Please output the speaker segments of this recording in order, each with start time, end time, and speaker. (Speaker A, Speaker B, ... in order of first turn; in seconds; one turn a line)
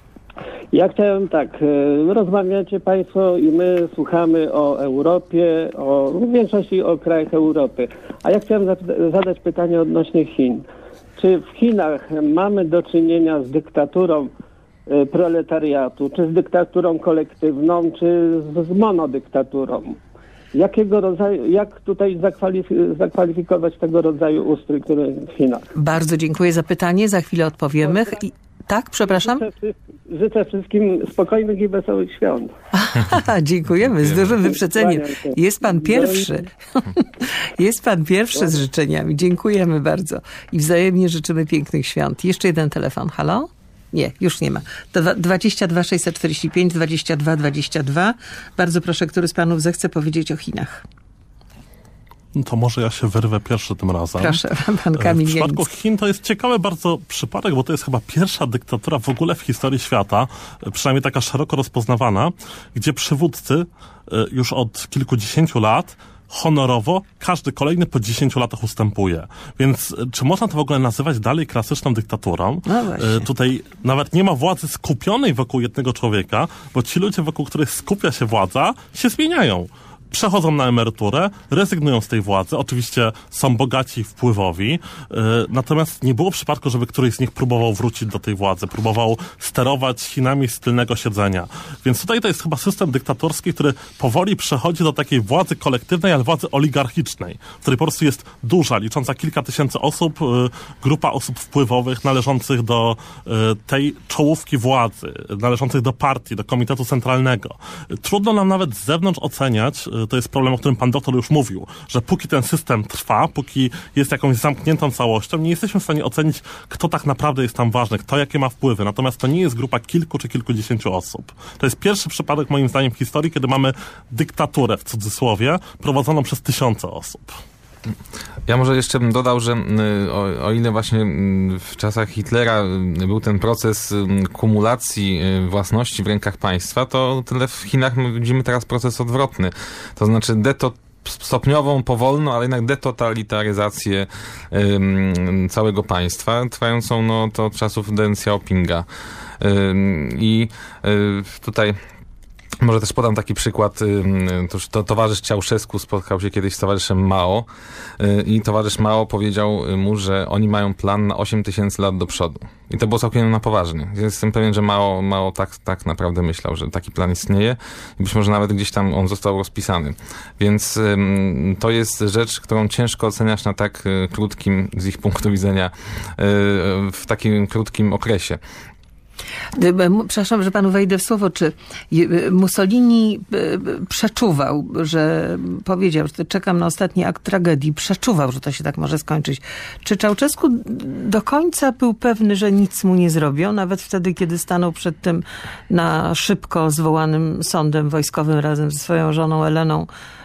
Speaker A: 0.7-10.6
Speaker A: 11.2-14.3
Speaker A: 14.9-20.0
Speaker A: 20.5-25.7
Speaker B: 25.7-29.4
Speaker A: 29.1-32.5
Speaker B: 32.7-50.8
Speaker A: 34.4-36.3
Speaker C: 52.3-54.4
Speaker B: 54.2-55.7
Speaker C: 55.0-127.4
Speaker B: 72.7-73.3
Speaker D: 128.5-148.8
Speaker D: 149.4-151.8
Speaker D: 152.6-178.4
Speaker B: 179.6-199.9